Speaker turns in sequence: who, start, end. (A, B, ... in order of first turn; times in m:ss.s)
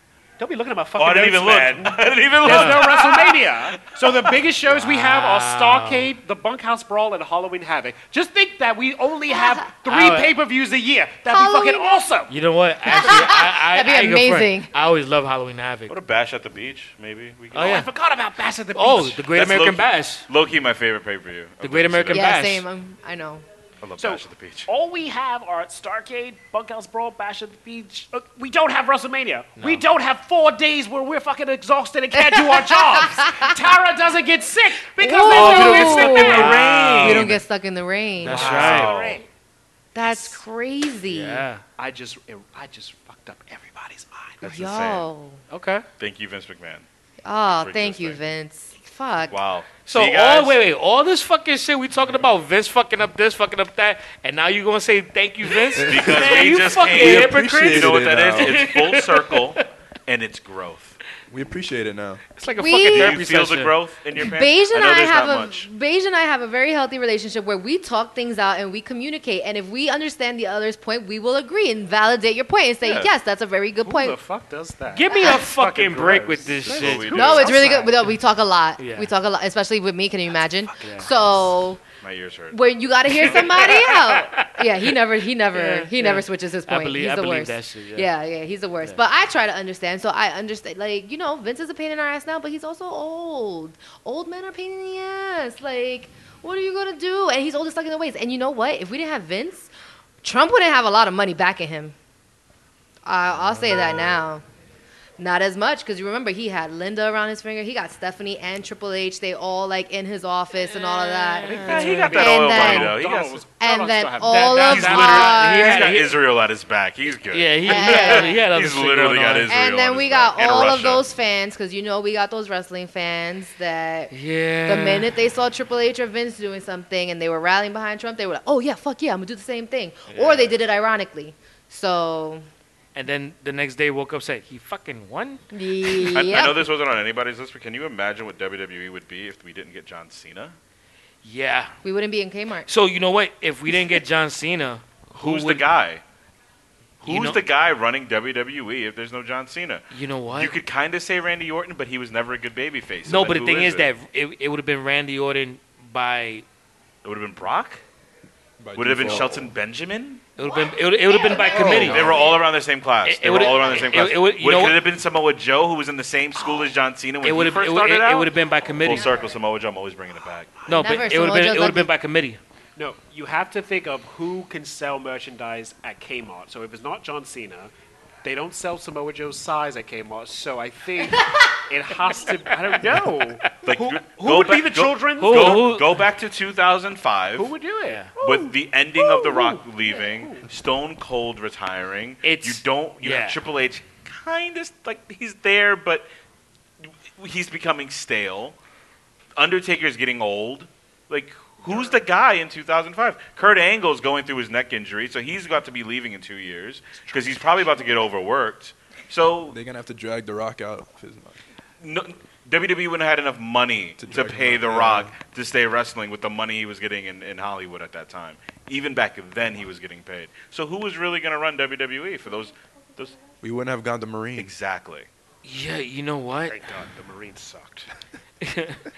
0:00.4-0:12.3 A
0:01.0-0:04.5 B
0:02.4-0:02.9 C
0:04.7-0:06.1 C
0:09.3-0:09.6 D
0:09.9-0:10.3 C
0:11.3-0:12.1 D
0:12.3-0:16.0 C
0:12.9-0:14.7 D
0:13.0-0:13.3 A
0:15.9-0:17.8 B
0:17.5-0:19.4 A
0:17.5-0:17.9 C
0:18.8-0:20.3 C
0:19.3-0:22.5 B
0:21.6-0:22.6 C
0:22.1-0:23.5 D
0:23.8-0:24.7 B
0:24.0-0:37.2 A
0:29.6-0:29.8 C
0:32.1-0:33.6 D
0:35.0-0:38.6 D
0:35.3-0:37.4 B
0:35.3-0:37.4 C
0:38.2-0:38.9 C
0:38.3-0:39.2 B
0:38.3-0:39.3 A
0:39.9-0:41.5 D
0:41.1-0:41.6 C
0:41.8-0:44.4 A
0:44.4-0:45.1 B
0:44.4-0:45.4 D
0:45.5-0:45.9 C
0:46.0-0:46.8 B
0:47.2-0:49.4 D
0:47.6-0:48.3 B
0:49.3-0:50.6 B
0:49.9-0:59.6 C
0:55.8-0:56.3 E
0:55.8-1:01.0 B
0:56.9-0:58.6 E
1:01.3-1:02.2 E
1:02.4-1:03.8 C
1:02.6-1:03.2 D
1:02.9-1:05.7 B
1:04.2-1:14.2 D
1:12.8-1:13.1 B
1:13.8-1:17.7 A
1:14.9-1:18.2 C
1:15.1-1:15.4 D
1:16.6-1:17.7 B
1:17.1-1:21.8 D
1:18.8-1:19.1 C
1:20.8-1:21.1 C
1:22.0-1:22.6 B
1:22.5-1:39.7 D
1:23.1-1:25.0 C
1:23.1-1:23.7 B
1:25.5-1:28.1 C
1:40.2-1:42.0 D
1:43.0-1:44.4 D
1:45.2-1:53.0 D
1:50.7-1:52.3 C
1:51.5-1:53.4 B
1:51.5-1:55.3 A
1:53.6-1:56.0 D
1:54.2-1:56.2 C
1:54.6-2:01.1 B
1:57.3-1:59.5 C
1:57.6-1:58.4 D
1:59.5-2:04.1 D
2:04.1-2:05.1 C
2:04.7-2:12.5 D
2:10.1-2:10.5 C
2:13.0-2:16.2 C
2:15.5-2:16.7 D
2:16.1-2:20.6 B
2:21.2-2:21.7 C
2:21.8-2:22.7 D
2:22.7-2:25.7 C
2:25.2-2:26.0 B
2:27.0-2:27.4 C
2:27.0-2:33.9 B
2:29.9-2:30.6 C
2:33.1-2:36.4 C
2:37.0-2:37.8 B
2:38.6-2:39.5 E
2:38.8-2:40.2 B
2:40.4-2:42.2 C
2:40.4-2:42.5 D
2:41.5-2:42.1 E
2:41.6-2:48.3 B
2:43.0-2:44.8 C
2:47.2-2:49.1 C
2:48.8-2:50.6 B
2:49.1-2:49.3 D
2:50.7-2:51.0 A
2:50.7-2:52.4 C
2:50.7-2:51.9 D
2:52.8-2:57.7 A
2:58.2-3:05.8 A
3:01.1-3:01.6 D
3:03.6-3:07.5 B
3:05.2-3:06.0 C
3:07.4-3:10.5 A
3:07.8-3:08.1 C
3:08.2-3:16.1 B
3:12.2-3:13.4 C
3:17.2-3:18.6 B
3:19.4-3:29.6 B
3:21.6-3:22.0 A
3:27.0-3:27.7 A
3:29.5-3:31.4 E
3:31.8-3:43.2 B
3:34.0-3:35.1 E
3:43.4-3:44.5 E
3:44.4-3:45.1 B
3:45.4-3:46.6 C
3:46.5-3:47.9 A
3:48.4-3:48.8 C